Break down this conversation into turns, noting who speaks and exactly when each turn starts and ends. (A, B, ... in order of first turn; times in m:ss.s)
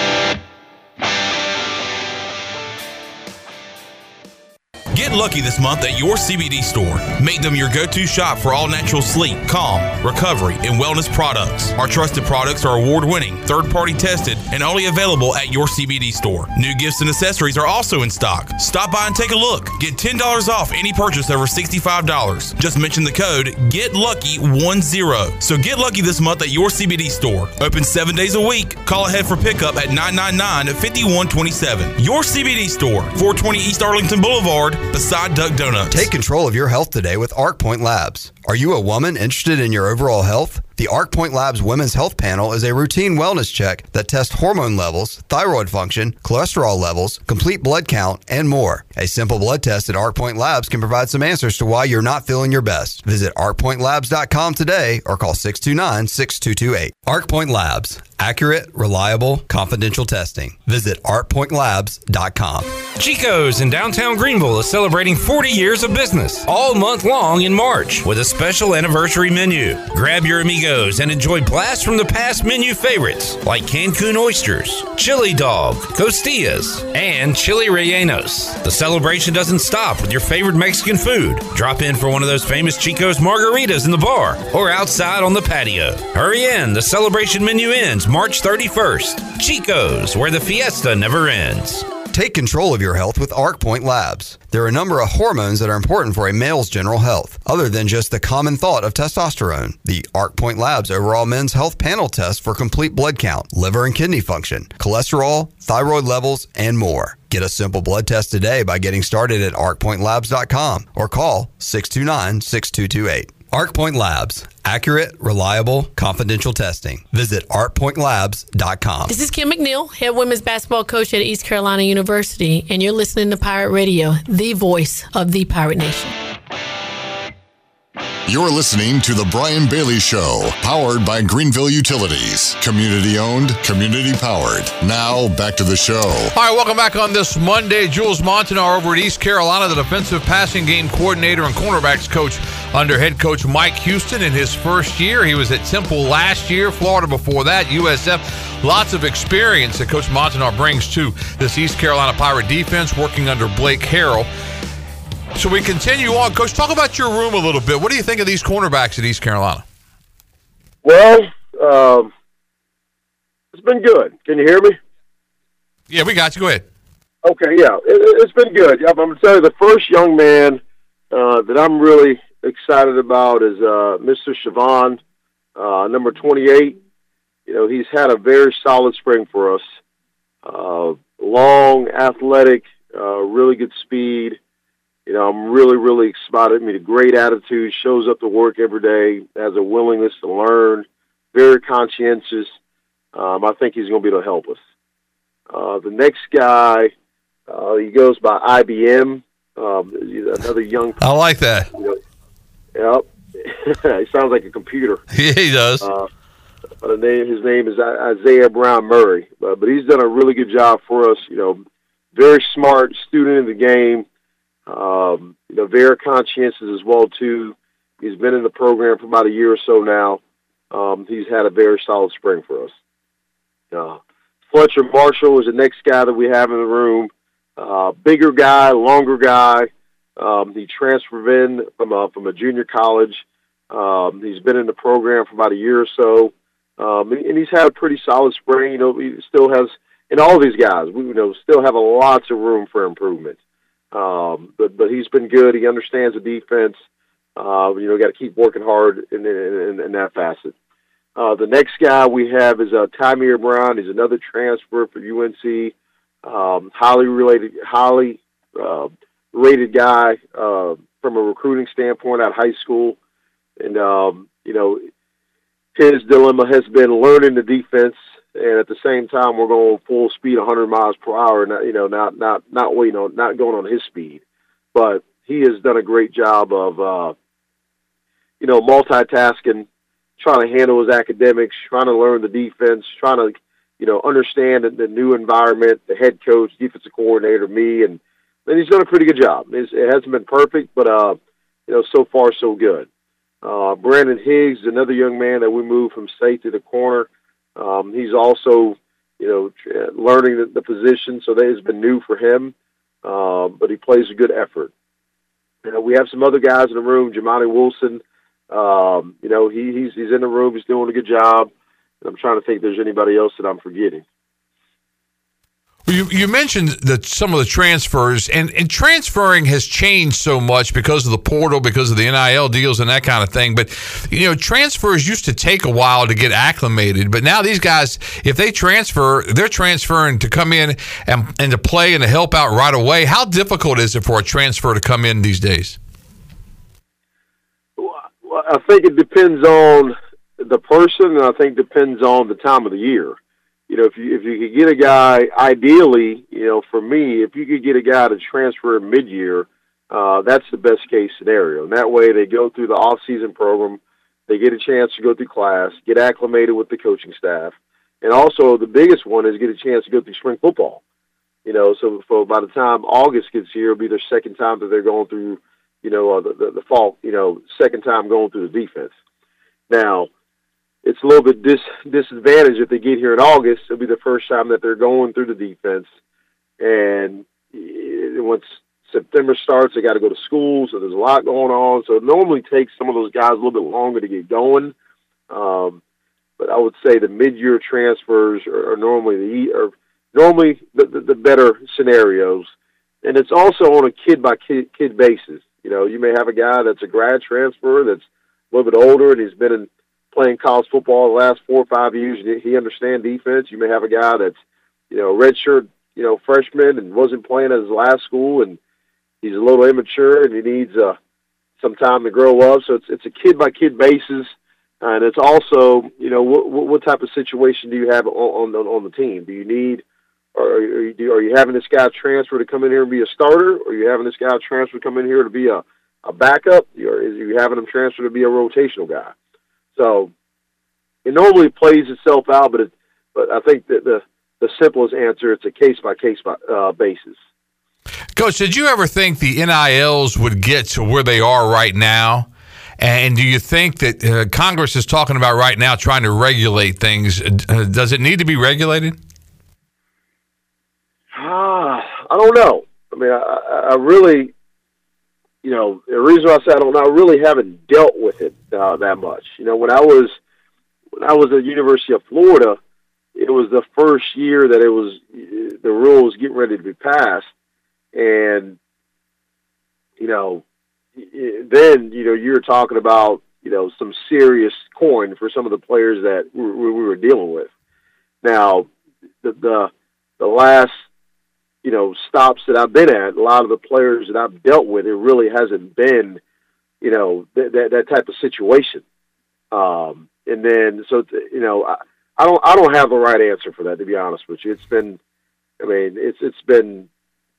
0:04.9-0:36.1 A
0:35.9-1:02.8 B
1:03.0-1:31.9 C
1:32.1-1:59.1 B
1:59.1-2:06.2 D
2:08.3-2:16.3 E
2:16.4-2:34.3 F
2:35.4-2:39.6 F
2:40.8-2:42.1 G
2:43.5-2:44.8 G
2:45.9-2:46.6 F
2:47.2-2:50.6 G
2:51.1-2:55.0 G
2:55.6-2:56.8 G
2:57.5-2:59.6 G
3:00.4-3:04.4 G
3:05.1-3:12.5 G
3:13.1-3:14.6 G
3:15.5-3:16.9 G
3:17.5-3:21.0 G
3:21.0-3:21.7 F
3:22.8-3:25.0 G
3:25.1-3:25.9 F
3:25.8-3:26.1 G
3:26.8-3:31.6 G
3:32.1-3:34.0 G
3:34.7-3:40.2 G
3:40.7-3:42.7 G
3:43.7-3:44.0 G
3:44.5-4:03.4 G
4:03.9-4:06.8 G
4:07.4-4:10.6 G
4:11.2-4:23.0 G
4:23.6-4:24.8 G
4:25.8-4:34.2 G
4:34.7-4:37.1 G
4:38.4-4:39.7 G
4:40.2-4:52.9 G
4:53.4-5:04.7 G
5:05.6-5:11.5 G
5:12.0-5:14.0 G
5:15.9-5:35.8 F
5:37.8-5:43.2 G
5:43.7-6:00.8 G
6:01.5-6:08.9 G
6:09.7-6:10.1 G
6:10.8-6:15.9 G
6:16.6-6:24.7 G
6:25.3-6:25.8 G
6:26.4-6:32.5 G
6:33.0-6:44.4 G
6:44.9-6:48.6 G
6:49.2-6:51.0 G
6:51.6-6:54.3 G
6:54.8-6:59.8 G
7:00.4-7:09.1 G
7:09.8-7:10.1 G
7:11.0-7:17.2 G
7:18.2-7:22.3 F
7:22.8-7:29.0 F
7:31.1-7:34.3 G
7:35.4-7:40.2 G
7:41.0-7:42.6 G
7:43.2-7:47.3 G
7:47.9-7:48.6 G
7:50.0-7:50.4 G
7:51.0-7:57.5 G
7:58.2-7:58.7 G
7:59.2-8:00.8 G
8:01.6-8:06.2 G
8:06.8-8:08.8 G
8:09.5-8:15.0 G
8:15.6-8:16.9 G